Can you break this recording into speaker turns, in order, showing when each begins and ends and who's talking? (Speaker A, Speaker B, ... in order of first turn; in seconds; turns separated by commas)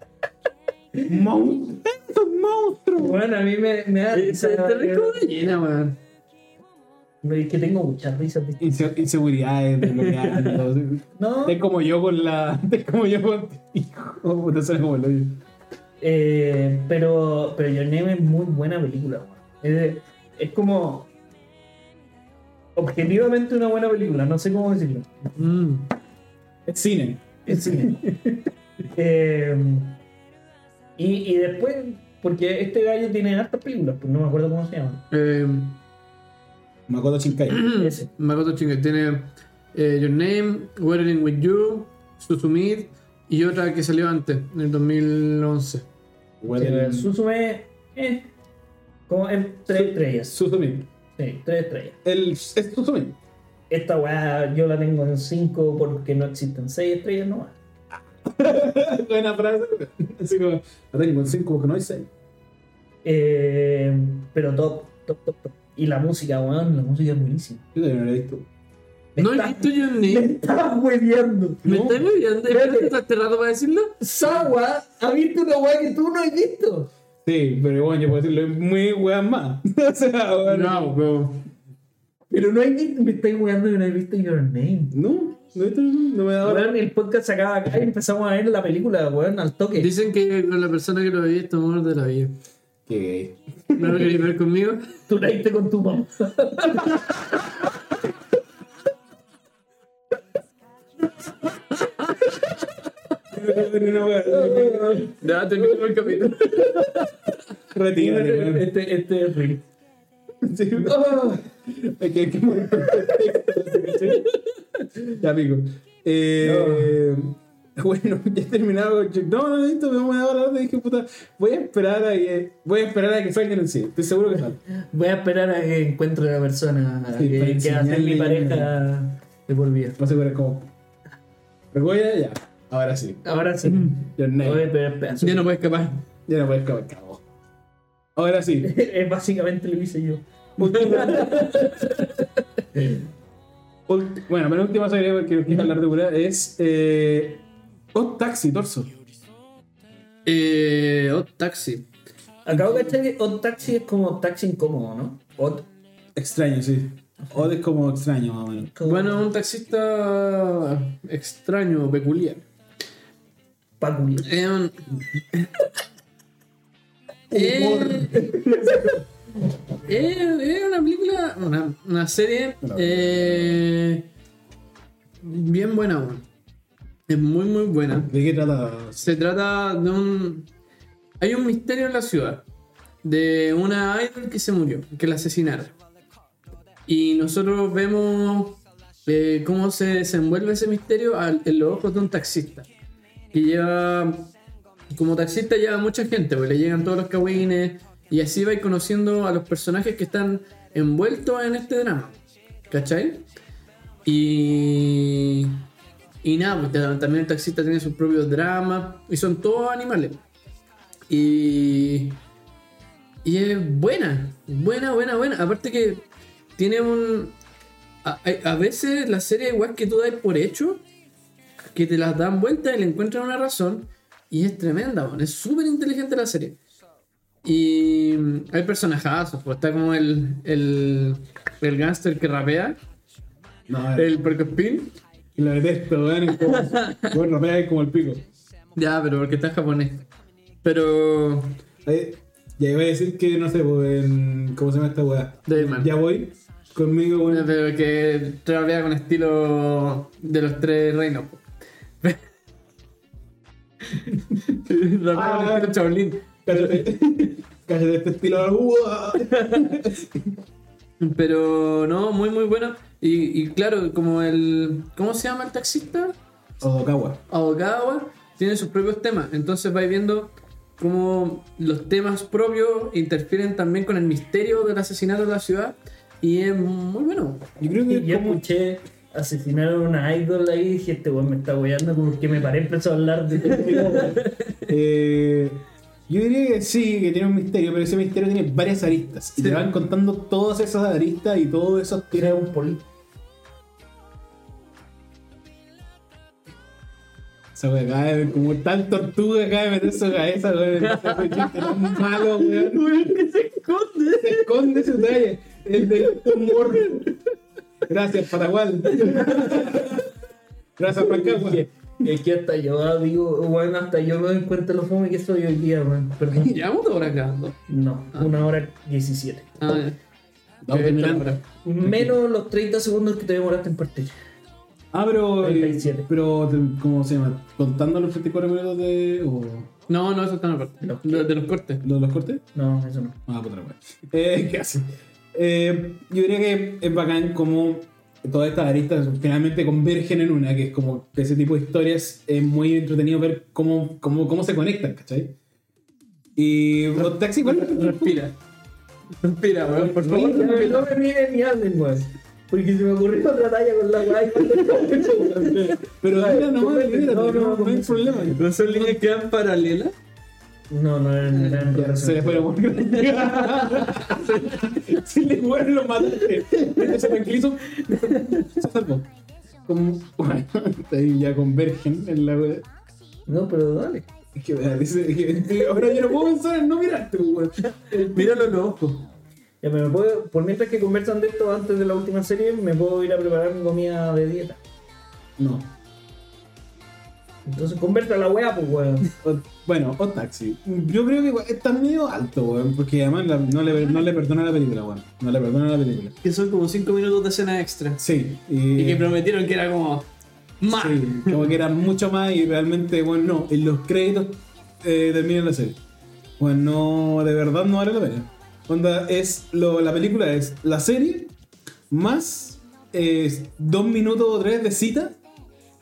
Speaker A: 1.1-3.2, Speaker B: 3.0-5.2, Speaker C: 4.1-6.0, Speaker B: 7.2-8.8, Speaker A: 8.6-15.4, Speaker C: 9.9-10.5, Speaker B: 11.2-11.6, Speaker B: 16.0-21.1, Speaker B: 22.8-25.2, Speaker C: 25.4-25.9, Speaker A: 26.6-28.0, Speaker B: 27.4-30.0, Speaker B: 31.0-35.0, Speaker C: 35.1-35.8, Speaker A: 36.9-37.7, Speaker C: 37.5-45.8, Speaker B: 37.7-38.1, Speaker A: 46.4-47.1, Speaker B: 46.5-48.3, Speaker B: 49.1-50.4, Speaker A: 49.7-50.9, Speaker B: 51.2-52.0, Speaker A: 52.0-53.2, Speaker B: 53.7-57.6, Speaker A: 58.2-62.1, Speaker B: 63.0-67.6, Speaker A: 67.7-68.5, Speaker B: 69.1-71.6, Speaker C: 69.2-70.3, Speaker A: 71.6-72.0, Speaker C: 71.6-74.0, Speaker B: 72.5-72.9, Speaker B: 74.0-76.9, Speaker A: 77.2-80.9, Speaker C: 80.5-81.5, Speaker B: 82.3-84.9, Speaker A: 84.9-86.8, Speaker B: 86.4-89.9, Speaker C: 89.8-92.4, Speaker A: 92.9-94.2, Speaker C: 93.8-94.9, Speaker B: 95.1-97.1, Speaker A: 103.3-106.7, Speaker B: 104.2-105.2, Speaker C: 105.1-107.0, Speaker A: 107.7-108.7, Speaker B: 108.0-109.6, Speaker A: 110.4-114.3, Speaker B: 110.8-111.5, Speaker B: 112.7-114.0, Speaker A: 115.0-124.6, Speaker B: 116.4-117.0, Speaker B: 124.7-130.0, Speaker A: 127.1-128.7, Speaker A: 130.0-130.7, Speaker A: 131.7-133.2, Speaker B: 133.2-135.5, Speaker A: 134.0-134.7, Speaker C: 135.2-136.0, Speaker A: 136.3-137.2, Speaker A: 138.2-138.7, Speaker B: 138.6-141.8, Speaker A: 140.6-141.2, Speaker C: 140.9-141.9, Speaker B: 142.8-143.0, Speaker A: 143.9-148.9, Speaker C: 150.2-151.9, Speaker B: 152.4-155.7, Speaker A: 156.1-158.7, Speaker B: 158.7-159.2, Speaker C: 158.8-162.4, Speaker B: 163.8-164.3, Speaker C: 164.2-164.7, Speaker C: 167.3-168.3, Speaker A: 167.3-169.0, Speaker B: 168.4-168.9, Speaker C: 169.8-174.1, Speaker A: 172.6-173.6, Speaker C: 175.2-176.2, Speaker C: 177.1-178.1, Speaker A: 178.1-179.1, Speaker C: 179.0-180.5, Speaker C: 181.2-182.4, Speaker C: 183.0-185.8, Speaker C: 186.9-192.7, Speaker C: 193.3-194.3, Speaker C: 194.9-203.2, Speaker C: 204.0-205.7, Speaker C: 206.2-210.2, Speaker C: 211.1-212.2, Speaker C: 213.2-216.1, Speaker C: 216.6-217.3, Speaker C: 218.0-220.8, Speaker C: 221.7-226.6, Speaker C: 227.4-232.8, Speaker A: 233.7-234.1, Speaker C: 233.9-235.0, Speaker A: 235.3-238.2, Speaker C: 236.5-237.1, Speaker C: 238.7-240.1, Speaker C: 240.6-241.6, Speaker A: 241.8-247.5, Speaker C: 245.4-246.0, Speaker C: 247.3-251.4, Speaker C: 254.0-256.9, Speaker A: 255.1-255.8, Speaker A: 256.4-260.4, Speaker C: 261.0-266.1, Speaker A: 266.6-267.2, Speaker C: 267.3-277.5, Speaker A: 277.6-278.4, Speaker B: 277.9-284.2, Speaker C: 283.7-284.2, Speaker A: 284.6-292.4, Speaker C: 289.4-289.7, Speaker B: 292.1-292.8, Speaker A: 297.5-302.9, Speaker C: 300.8-305.1, Speaker A: 304.2-307.1, Speaker C: 305.8-307.1, Speaker A: 307.9-310.0, Speaker C: 308.9-309.8, Speaker A: 310.8-311.6, Speaker B: 311.1-316.6, Speaker C: 316.3-317.6, Speaker B: 317.7-319.6, Speaker C: 319.6-320.0, Speaker A: 320.6-322.1, Speaker C: 320.7-321.4, Speaker B: 321.6-324.1, Speaker A: 324.9-329.7, Speaker B: 325.4-326.1, Speaker C: 329.9-331.8, Speaker B: 330.8-331.3, Speaker A: 331.8-332.4, Speaker B: 332.5-333.2, Speaker A: 333.3-345.4, Speaker A: 346.4-348.2, Speaker C: 346.9-348.4, Speaker C: 349.2-350.9, Speaker A: 349.7-350.8, Speaker B: 350.0-358.4, Speaker C: 354.9-355.5, Speaker A: 355.8-359.0, Speaker C: 358.3-359.9, Speaker B: 360.7-362.5, Speaker A: 361.7-369.1, Speaker C: 363.0-365.0, Speaker C: 366.5-367.1, Speaker C: 367.8-368.4, Speaker A: 369.6-372.6, Speaker B: 373.3-374.1, Speaker A: 374.3-378.2, Speaker C: 377.9-379.1, Speaker B: 379.6-384.6, Speaker A: 385.4-385.8, Speaker B: 387.5-389.1, Speaker A: 389.2-396.2, Speaker C: 396.2-398.0, Speaker A: 398.0-399.2, Speaker C: 398.8-400.1, Speaker C: 400.6-401.6, Speaker A: 400.7-405.8, Speaker A: 406.4-411.3, Speaker A: 411.9-415.2